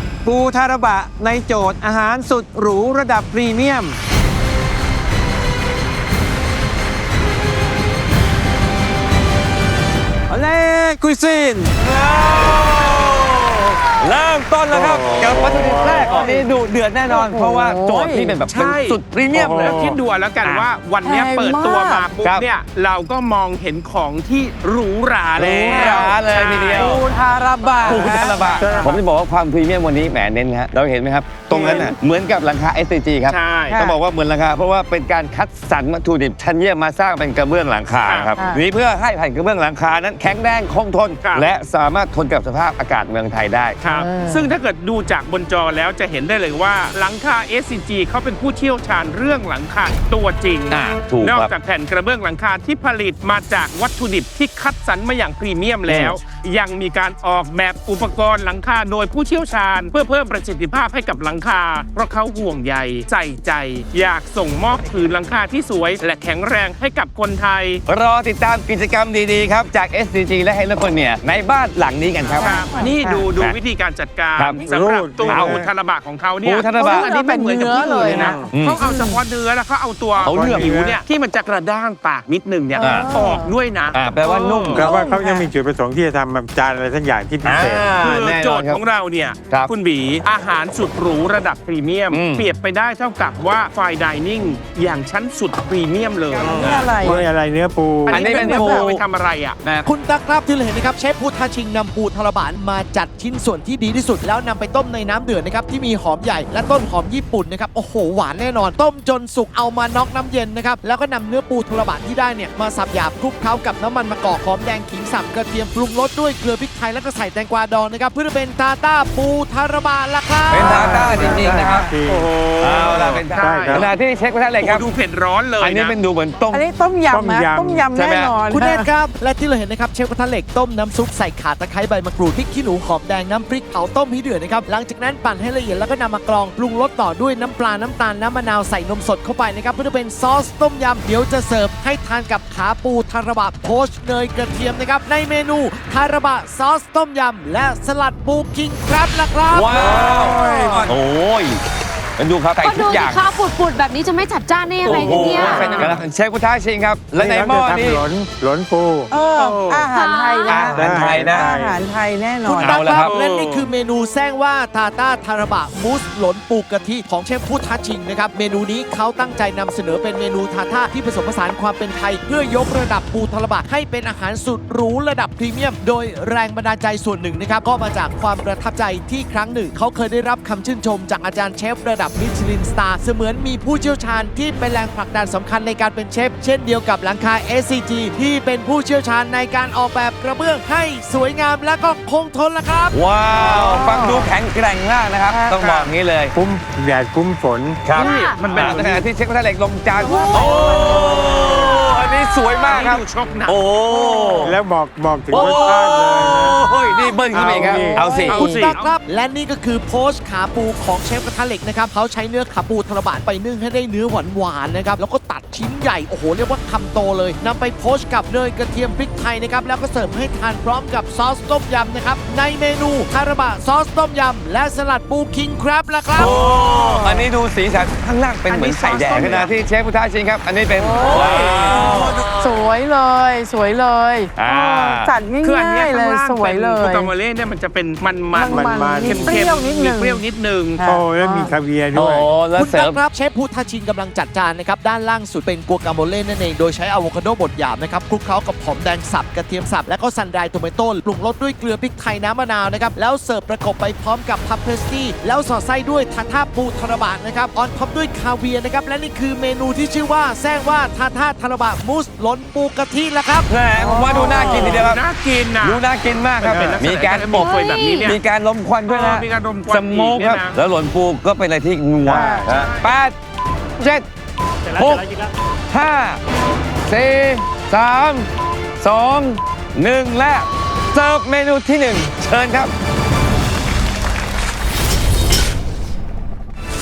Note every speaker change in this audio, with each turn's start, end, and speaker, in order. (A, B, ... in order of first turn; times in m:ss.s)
0:00.2-0:04.0 A
0:10.3-0:11.8 A
0:11.8-0:19.8 B
0:14.7-0:16.3 C
0:16.1-0:16.4 D
0:17.1-0:18.4 D
0:18.5-0:27.0 E
0:19.3-0:20.0 C
0:20.4-0:20.7 B
0:21.0-0:22.1 D
0:22.2-0:22.5 B
0:25.4-0:27.0 B
0:25.6-0:26.2 D
0:26.7-0:28.9 D
0:27.8-0:43.8 B
0:28.4-0:29.0 C
0:31.5-0:31.9 E
0:31.5-0:31.9 D
0:33.3-0:33.8 E
0:33.7-0:34.0 D
0:38.0-0:38.3 E
0:41.2-0:41.5 E
0:43.8-1:07.8 E
0:43.9-0:44.5 D
0:50.7-0:51.5 B
0:55.8-0:56.2 B
1:07.8-1:12.5 B
1:12.4-1:13.3 D
1:12.4-1:24.8 E
1:14.4-1:14.6 B
1:14.6-1:15.7 C
1:15.2-1:15.6 B
1:16.4-1:17.1 B
1:16.8-1:19.2 D
1:18.0-1:18.5 C
1:18.5-1:18.8 B
1:20.2-1:21.0 C
1:20.2-1:20.7 B
1:22.8-1:23.5 D
1:22.8-1:23.1 B
1:23.9-1:24.9 B
1:24.7-1:27.9 C
1:24.8-1:25.5 D
1:27.4-1:28.8 B
1:28.0-1:36.9 E
1:32.1-1:32.4 B
1:36.3-1:37.2 B
1:36.4-1:38.3 C
1:36.5-1:37.2 D
1:38.0-1:39.6 E
1:38.1-1:39.0 B
1:38.2-1:38.9 D
1:39.6-1:39.9 B
1:39.8-2:01.4 F
2:00.5-2:01.9 B
2:00.5-2:02.3 C
2:01.0-2:03.9 E
2:02.6-2:04.9 B
2:03.0-2:03.9 C
2:04.6-2:06.0 E
2:05.6-2:06.6 B
2:06.5-2:08.8 D
2:07.1-2:07.9 C
2:07.9-2:08.3 B
2:08.5-2:30.4 F
2:29.5-2:31.6 B
2:29.8-2:30.9 C
2:32.2-2:33.3 B
2:32.6-2:36.0 G
2:34.8-2:36.0 C
2:34.8-2:38.0 B
2:37.2-2:39.1 C
2:39.1-2:42.8 D
2:39.3-2:39.9 E
2:40.0-2:40.7 G
2:40.4-2:41.5 B
2:40.6-2:41.8 C
2:42.4-2:43.1 B
2:42.6-3:13.0 F
2:42.6-2:43.7 E
3:12.9-3:16.3 B
3:13.4-3:14.3 D
3:15.3-3:15.9 E
3:16.3-3:17.8 C
3:17.8-3:24.6 B
3:18.0-3:19.0 E
3:18.0-3:18.5 G
3:20.0-3:20.5 G
3:20.2-3:21.4 D
3:22.5-3:23.6 E
3:24.0-3:24.4 D
3:24.4-3:26.6 C
3:25.3-3:28.4 B
3:25.3-3:25.7 E
3:27.3-3:28.3 C
3:27.8-3:28.6 D
3:28.2-3:29.0 E
3:28.3-3:46.4 F
3:46.2-3:52.2 B
3:46.2-3:47.3 D
3:48.5-3:49.5 E
3:49.1-3:49.4 D
3:50.8-3:57.1 D
3:51.0-3:52.6 E
3:54.4-3:55.1 B
3:55.4-4:00.8 E
3:58.3-4:00.2 D
3:58.4-3:59.4 C
4:00.8-4:01.5 D
4:00.8-4:02.3 C
4:01.9-4:03.0 B
4:02.5-4:23.5 F
4:23.5-4:25.0 B
4:23.8-4:24.8 D
4:24.1-4:25.8 E
4:25.6-4:33.2 B
4:26.4-4:28.2 E
4:26.5-4:26.8 C
4:27.3-4:28.1 G
4:28.8-4:30.6 E
4:32.0-4:32.5 D
4:32.1-4:32.9 E
4:33.8-4:34.0 B
4:34.7-4:35.3 C
4:34.7-4:35.0 B
4:35.7-4:36.2 B
4:36.9-4:38.3 B
4:38.8-4:42.7 B